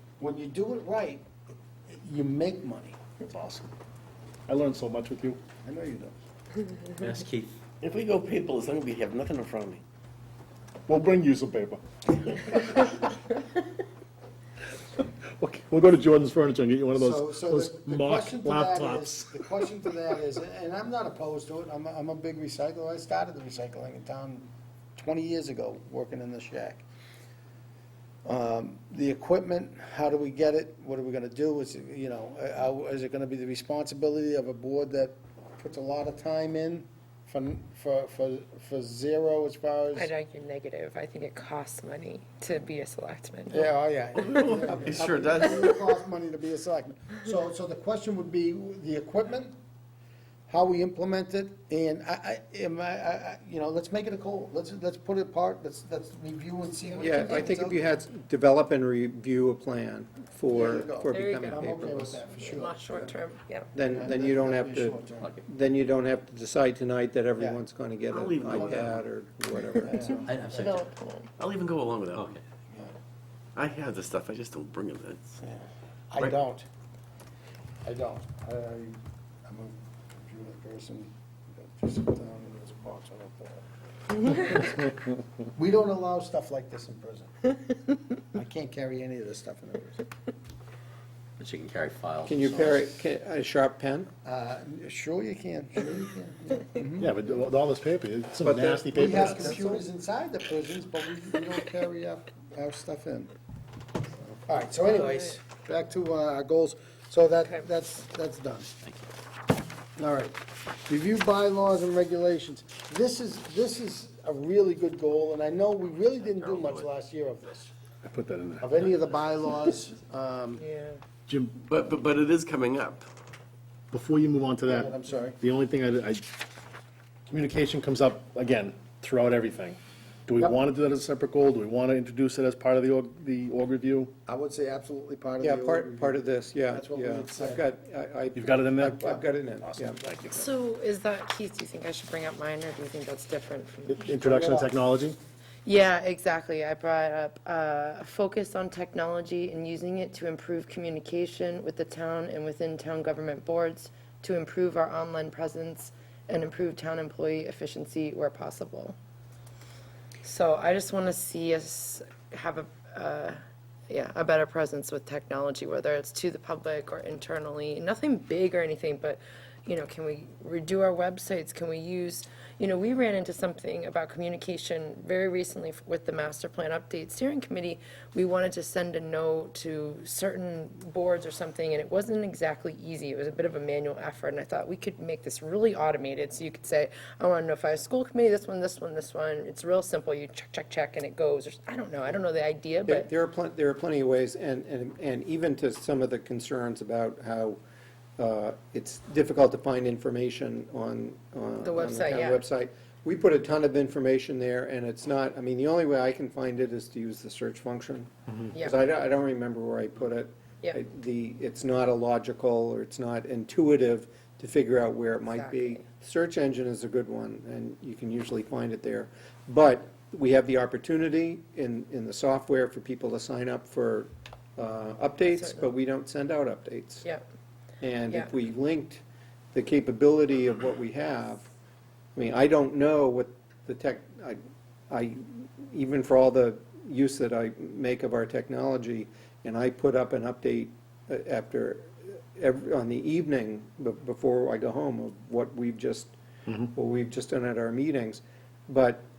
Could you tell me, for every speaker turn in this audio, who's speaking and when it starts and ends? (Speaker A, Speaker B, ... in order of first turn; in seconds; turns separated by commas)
Speaker A: 0.2-1.3, Speaker A: 1.9-3.0, Speaker B: 3.2-3.7, Speaker B: 4.5-5.4, Speaker A: 5.6-6.1, Speaker C: 7.0-7.5, Speaker D: 7.8-9.8, Speaker B: 10.9-13.1, Speaker B: 15.0-19.6, Speaker A: 16.9-26.9, Speaker A: 28.2-40.1, Speaker E: 39.9-44.5, Speaker A: 43.5-49.5, Speaker D: 44.2-45.8, Speaker A: 50.5-57.9, Speaker E: 56.8-57.5, Speaker F: 57.0-62.2, Speaker A: 60.5-63.2, Speaker E: 61.1-63.7, Speaker F: 63.7-70.4, Speaker A: 63.8-65.3, Speaker C: 65.2-65.5, Speaker D: 68.1-69.0, Speaker A: 68.4-68.9, Speaker A: 69.8-70.4, Speaker E: 70.0-71.3, Speaker C: 70.3-70.9, Speaker D: 71.4-72.4, Speaker A: 72.7-72.9, Speaker D: 73.5-75.4, Speaker A: 75.4-76.7, Speaker A: 77.8-83.7, Speaker A: 84.2-84.9, Speaker A: 85.5-87.3, Speaker A: 88.3-90.0, Speaker C: 91.4-92.8, Speaker F: 92.2-94.1, Speaker A: 94.2-97.1, Speaker B: 97.0-99.5, Speaker F: 98.4-99.8, Speaker A: 98.9-103.3, Speaker A: 104.2-108.7, Speaker C: 108.8-109.1, Speaker A: 110.0-117.7, Speaker C: 116.3-116.9, Speaker B: 118.0-118.7, Speaker A: 118.6-120.6, Speaker E: 120.6-121.0, Speaker B: 121.3-121.6, Speaker D: 121.7-123.0, Speaker B: 123.9-126.3, Speaker A: 124.6-125.4, Speaker B: 127.3-134.1, Speaker A: 134.3-137.7, Speaker F: 135.4-140.0, Speaker B: 138.3-140.4, Speaker E: 140.3-144.1, Speaker B: 143.9-145.2, Speaker A: 144.1-144.8, Speaker E: 145.7-159.0, Speaker E: 160.2-163.4, Speaker E: 163.9-193.1, Speaker F: 192.9-197.6, Speaker F: 198.2-227.1, Speaker E: 201.6-202.4, Speaker E: 215.3-215.8, Speaker E: 225.3-225.7, Speaker F: 227.8-229.0, Speaker F: 229.5-231.5, Speaker F: 232.2-249.0